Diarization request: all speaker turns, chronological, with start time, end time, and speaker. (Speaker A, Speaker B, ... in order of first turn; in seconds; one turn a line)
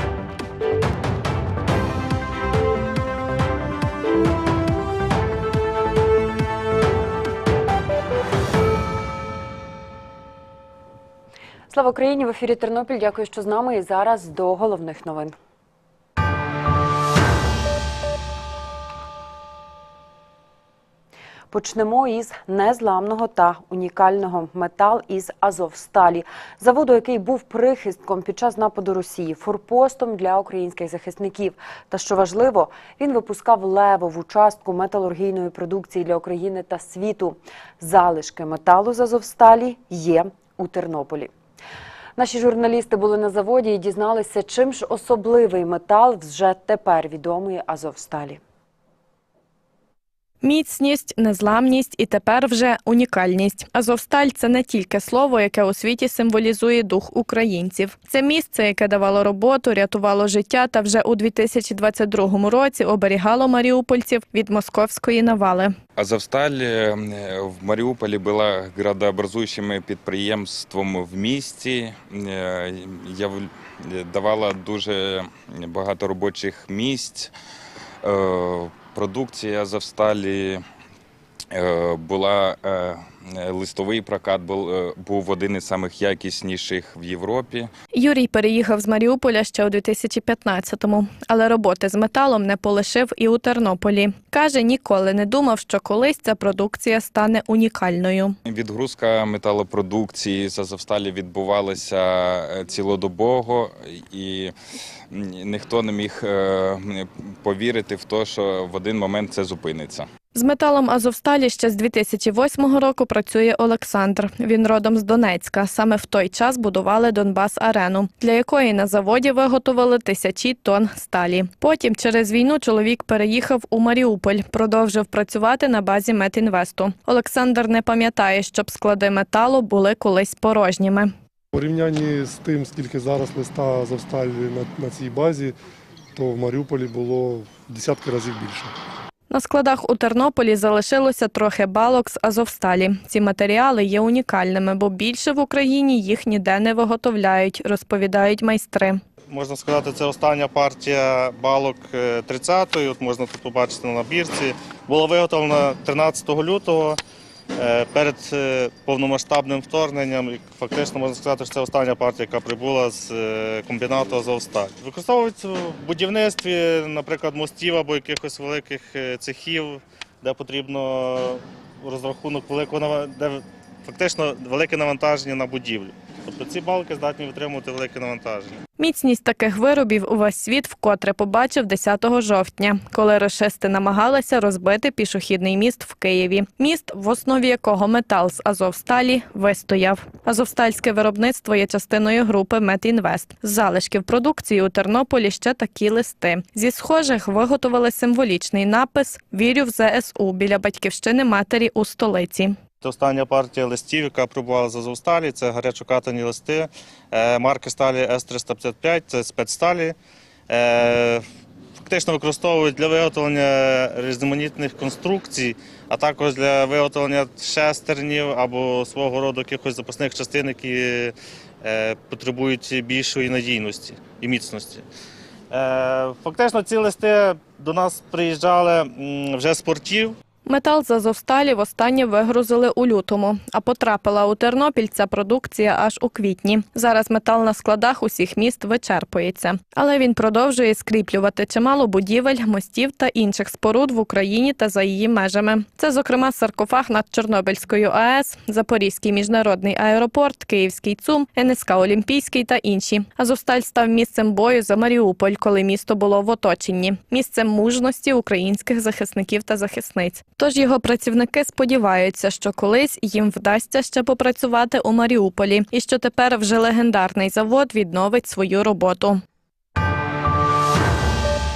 Speaker A: 11.7-15.3
Speaker A: 21.5-41.3
Speaker A: 42.2-48.4
Speaker B: 50.4-65.7
Speaker C: 66.0-77.3
Speaker C: 78.0-80.6
Speaker C: 81.5-87.7
Speaker B: 87.9-98.3
Speaker C: 98.5-104.5
Speaker C: 105.1-110.1
Speaker B: 110.3-131.1
Speaker D: 131.5-135.6
Speaker D: 136.1-138.7
Speaker B: 139.3-149.0
Speaker E: 149.3-157.0
Speaker E: 157.6-178.6
Speaker B: 178.8-202.5
Speaker E: 202.8-209.9
Speaker E: 210.5-211.2
Speaker E: 211.9-224.8
Speaker E: 225.5-230.2
Speaker B: 230.4-269.2